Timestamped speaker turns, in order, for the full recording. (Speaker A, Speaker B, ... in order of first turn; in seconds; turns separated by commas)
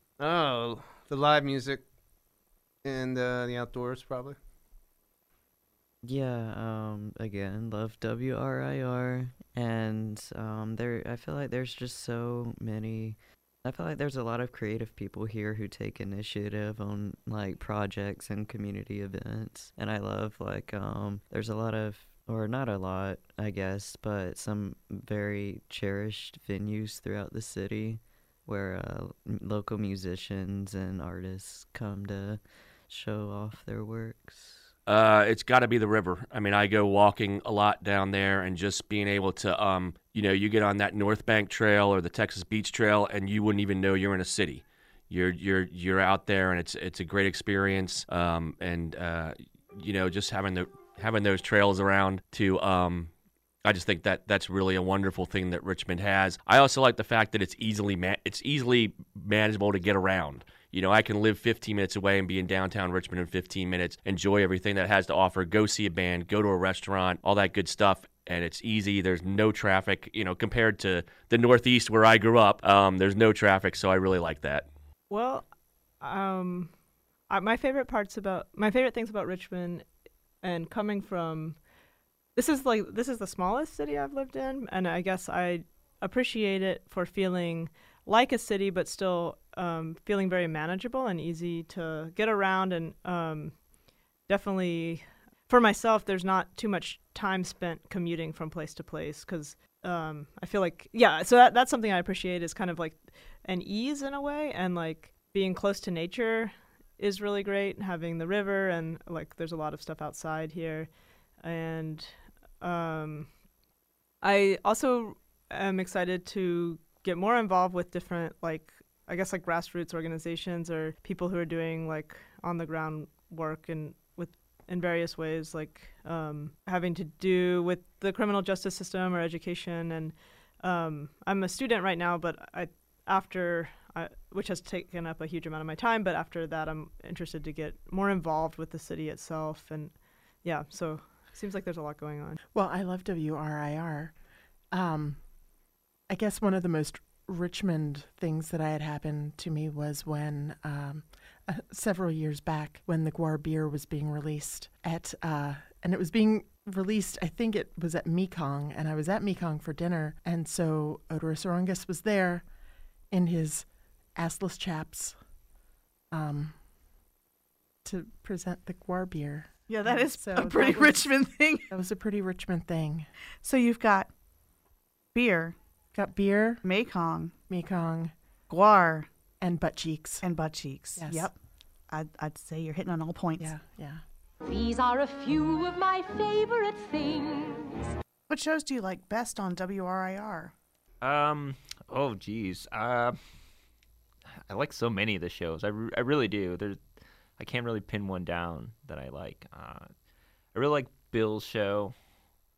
Speaker A: 0.2-1.8, Speaker A: 2.8-4.4, Speaker B: 6.0-34.7, Speaker C: 34.9-53.1, Speaker C: 53.6-74.7, Speaker D: 75.1-76.8, Speaker D: 77.3-79.9, Speaker D: 80.4-81.6, Speaker D: 82.3-93.6, Speaker D: 94.2-113.3, Speaker D: 114.2-142.4, Speaker E: 142.5-144.1, Speaker E: 144.7-145.3, Speaker E: 146.1-162.4, Speaker E: 163.1-165.2, Speaker E: 166.1-166.6, Speaker E: 167.8-171.1, Speaker F: 169.7-171.7, Speaker E: 171.7-173.1, Speaker F: 173.4-174.1, Speaker F: 175.1-175.6, Speaker E: 175.9-176.6, Speaker F: 176.6-177.3, Speaker E: 177.5-178.1, Speaker F: 178.5-179.1, Speaker E: 179.4-180.2, Speaker F: 180.2-181.3, Speaker E: 181.0-181.3, Speaker F: 181.9-183.5, Speaker E: 183.4-184.0, Speaker G: 184.4-187.9, Speaker F: 188.3-190.5, Speaker H: 191.0-193.2, Speaker H: 194.5-196.8, Speaker H: 197.4-199.9, Speaker H: 200.5-201.9